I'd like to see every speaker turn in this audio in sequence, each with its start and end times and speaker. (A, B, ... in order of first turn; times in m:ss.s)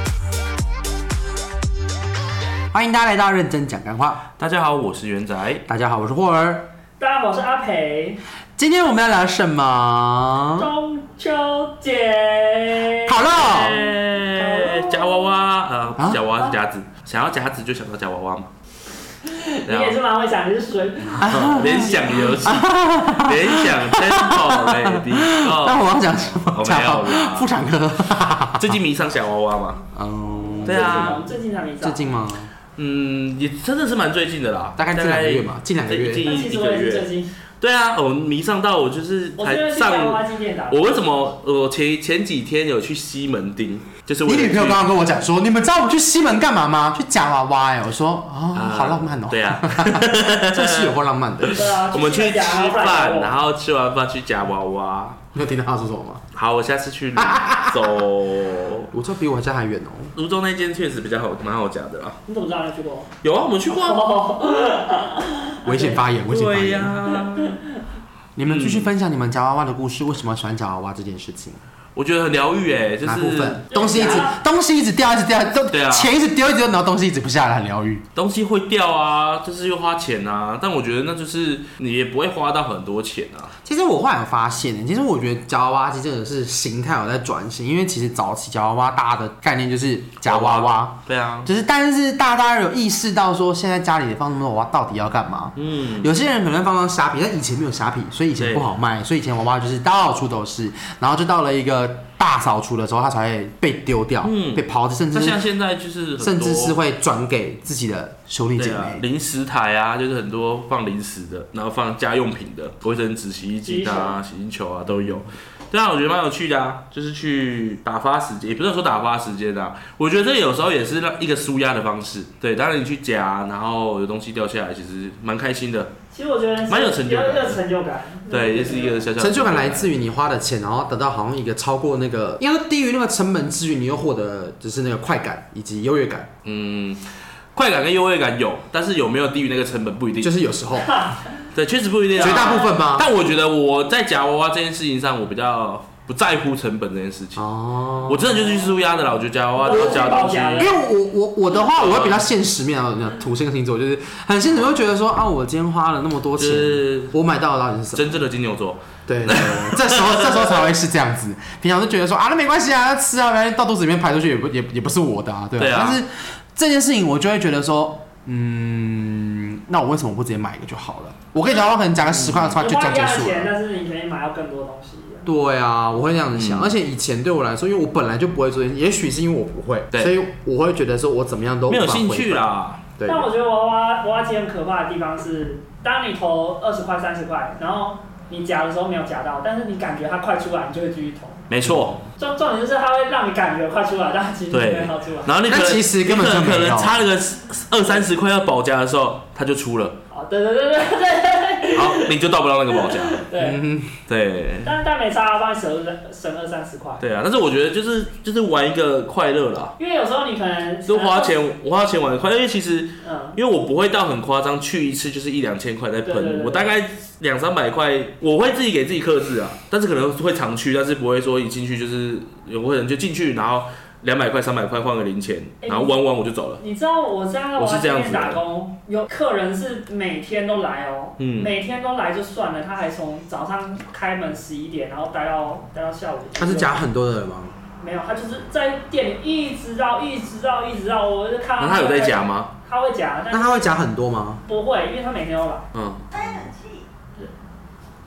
0:02.7-0:04.2 A
0:04.4-0:05.6 B
0:05.7-0:06.7 A
0:07.0-0:08.2 C
0:08.6-0:10.7 A
0:10.6-0:15.3 C
0:13.1-0:13.9 A
0:13.2-0:18.5 B
0:16.0-0:16.2 A
0:19.2-0:22.2 C
0:19.7-0:20.0 B
0:21.2-0:28.8 A
0:21.3-0:25.9 B
0:26.4-0:27.5 B
0:28.6-0:29.8 B
0:29.9-0:31.2 A
0:30.3-0:32.1 C
0:30.6-0:31.3 B
0:31.8-0:32.5 A
0:32.8-0:37.1 B
0:34.8-0:36.3 A
0:36.3-0:37.3 C
0:37.6-0:44.8 B
0:39.4-0:40.9 C
0:44.2-0:51.7 A
0:48.5-0:55.2 B
0:51.5-0:53.4 C
0:55.3-0:56.2 A
0:56.3-0:58.9 B
0:57.2-0:58.0 A
0:58.9-1:00.1 A
1:00.2-1:02.2 B
1:02.3-1:03.1 C
1:03.2-1:04.1 B
1:03.7-1:06.0 C
1:05.6-1:07.0 A
1:06.3-1:07.6 B
1:08.4-1:11.6 A
1:08.4-1:08.9 B
1:12.0-1:13.6 B
1:13.0-1:18.0 A
1:13.7-1:14.4 C
1:15.7-1:16.1 B
1:18.2-1:23.5 B
1:23.6-1:45.4 A
1:30.3-1:31.5 B
1:35.6-1:36.1 B
1:38.4-1:38.7 B
1:44.2-1:46.8 B
1:46.2-1:49.0 A
1:48.6-2:05.9 B
1:53.6-1:54.2 C
1:54.9-1:55.3 A
2:06.1-2:09.1 C
2:06.7-2:07.6 B
2:08.3-2:09.9 B
2:09.2-2:16.3 A
2:16.4-2:20.3 B
2:20.2-2:21.2 A
2:20.8-2:21.4 C
2:21.6-2:27.4 B
2:22.2-2:22.7 C
2:22.2-2:23.1 A
2:27.4-2:28.5 A
2:28.1-2:30.8 B
2:29.6-2:30.8 C
2:29.7-2:38.2 A
2:31.6-2:32.2 B
2:36.4-2:37.2 B
2:38.0-2:40.7 B
2:39.1-2:53.5 A
2:45.6-2:46.0 B
2:51.4-2:51.7 C
2:52.1-2:52.6 B
2:52.6-2:55.3 C
2:55.2-3:03.3 A
2:56.4-2:56.8 B
3:01.7-3:02.9 B
3:03.0-3:11.5 C
3:11.5-3:12.0 B
3:11.6-3:12.1 A
3:12.2-3:15.4 C
3:14.5-3:20.0 B
3:15.5-3:17.0 A
3:20.1-3:22.2 C
3:21.8-3:23.2 B
3:22.7-3:23.6 C
3:23.4-3:24.0 A
3:24.1-3:24.7 B
3:24.6-3:27.0 C
3:27.0-3:29.7 B
3:29.8-3:31.4 C
3:30.9-3:46.6 B
3:33.0-3:33.4 C
3:36.0-3:36.8 C
3:45.6-3:45.9 C
3:46.6-3:56.8 C
3:47.6-3:48.4 B
3:51.2-3:51.5 B
3:56.4-3:57.6 A
3:57.8-4:03.8 C
4:01.6-4:02.5 B
4:03.3-4:04.4 A
4:04.4-4:05.6 C
4:05.7-4:06.5 B